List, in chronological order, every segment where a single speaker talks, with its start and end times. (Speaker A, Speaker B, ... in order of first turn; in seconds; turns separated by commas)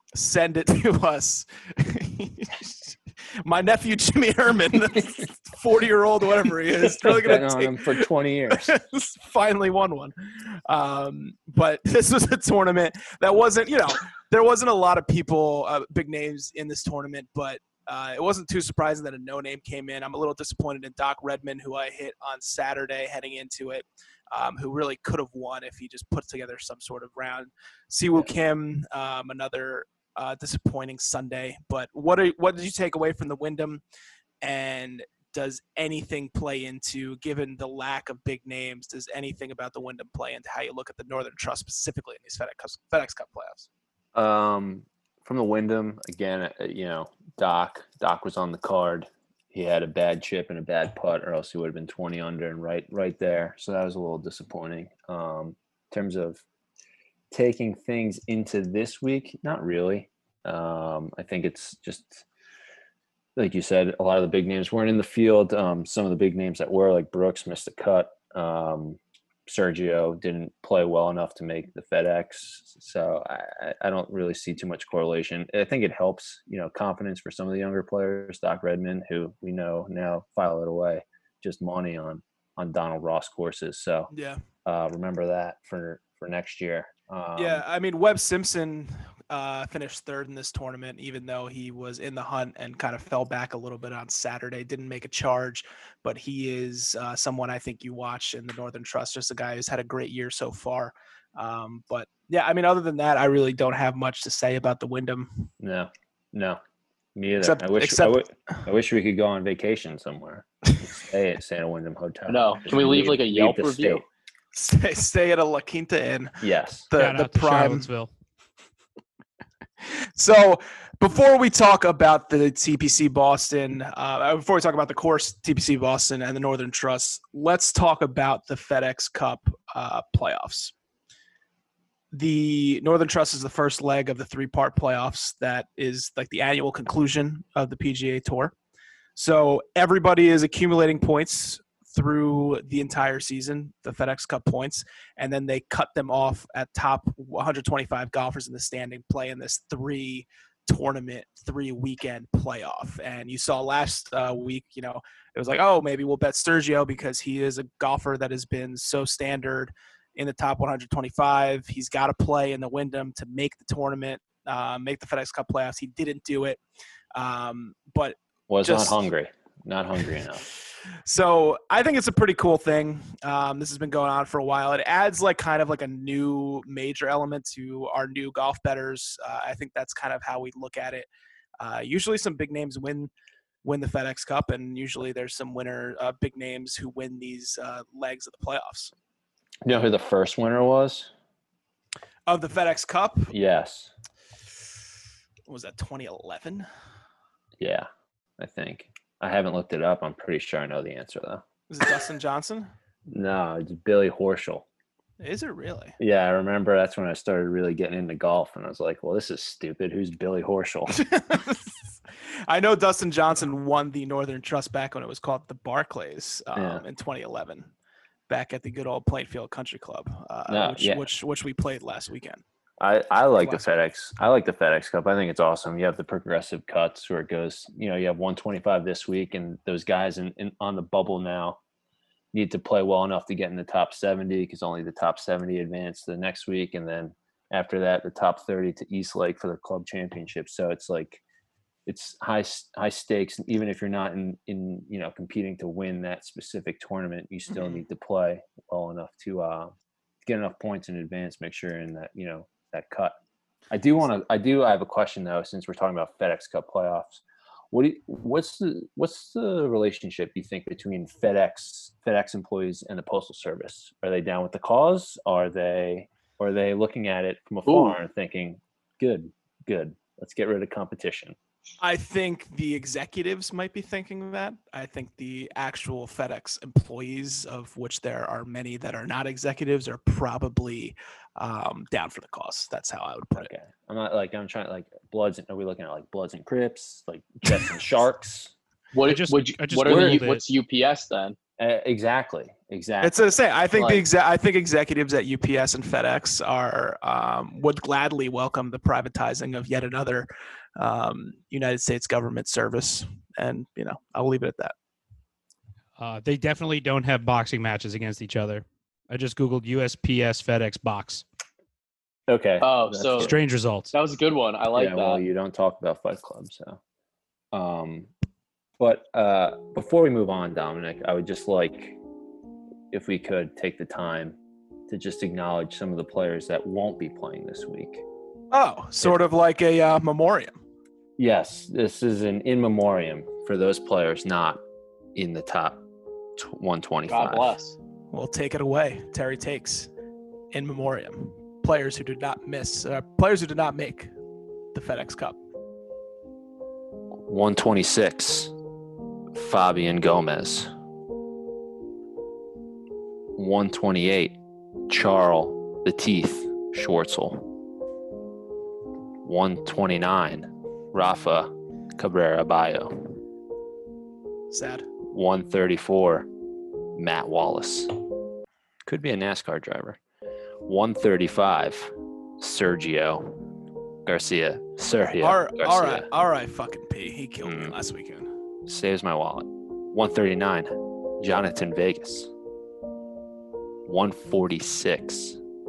Speaker A: 0.1-33.8, Speaker B: 7.0-8.8, Speaker A: 34.4-43.7, Speaker B: 44.1-56.4, Speaker B: 57.3-62.2, Speaker B: 63.4-84.1, Speaker A: 84.1-84.4, Speaker B: 84.7-87.6, Speaker A: 87.4-105.5, Speaker B: 105.6-106.6, Speaker B: 107.2-114.0, Speaker A: 107.4-108.2, Speaker C: 112.3-114.0, Speaker A: 114.5-117.9, Speaker B: 116.4-116.9, Speaker D: 116.9-118.1, Speaker A: 120.2-130.7, Speaker A: 132.1-138.5, Speaker A: 139.2-166.6, Speaker A: 167.2-169.0, Speaker B: 168.5-170.4, Speaker A: 171.1-181.1, Speaker A: 181.6-183.1, Speaker A: 183.6-188.9, Speaker B: 189.7-191.1, Speaker A: 192.3-193.3, Speaker B: 193.3-193.9, Speaker A: 195.5-196.7, Speaker B: 197.6-201.4, Speaker A: 201.7-202.7, Speaker B: 203.1-204.7, Speaker A: 205.2-206.0, Speaker B: 206.0-211.0, Speaker A: 210.9-211.9, Speaker A: 212.5-217.7, Speaker B: 216.5-216.8, Speaker A: 218.3-222.4, Speaker B: 220.5-221.0, Speaker B: 222.8-231.6, Speaker A: 223.4-223.7, Speaker B: 232.3-241.2, Speaker B: 241.8-249.7, Speaker A: 247.5-247.8, Speaker B: 250.2-253.2, Speaker B: 253.7-271.4, Speaker C: 267.6-268.0, Speaker A: 271.8-283.5, Speaker B: 283.4-288.5, Speaker C: 288.9-291.4, Speaker D: 289.1-290.4, Speaker B: 289.9-290.2, Speaker B: 291.6-294.0, Speaker A: 293.0-304.7, Speaker D: 306.0-311.2, Speaker B: 312.3-313.4, Speaker C: 312.6-313.3, Speaker D: 313.2-313.9, Speaker C: 313.9-315.2, Speaker B: 314.8-316.8, Speaker B: 317.5-318.1, Speaker B: 318.8-322.0, Speaker B: 322.9-324.4, Speaker B: 324.9-328.0, Speaker A: 328.5-330.6, Speaker B: 331.2-334.6, Speaker B: 335.1-335.8, Speaker B: 336.4-337.5, Speaker C: 337.1-337.8, Speaker A: 338.1-339.9, Speaker A: 340.5-344.1, Speaker A: 344.7-345.4, Speaker B: 347.2-348.5, Speaker B: 349.3-350.7, Speaker B: 353.4-354.4, Speaker B: 354.9-357.5, Speaker B: 359.2-363.2, Speaker A: 364.5-364.9, Speaker B: 365.1-366.3, Speaker B: 366.9-367.9, Speaker B: 368.9-370.0, Speaker B: 370.6-373.4, Speaker B: 374.1-376.1, Speaker A: 375.2-378.3, Speaker B: 377.4-377.8, Speaker B: 378.6-382.3, Speaker B: 383.9-385.4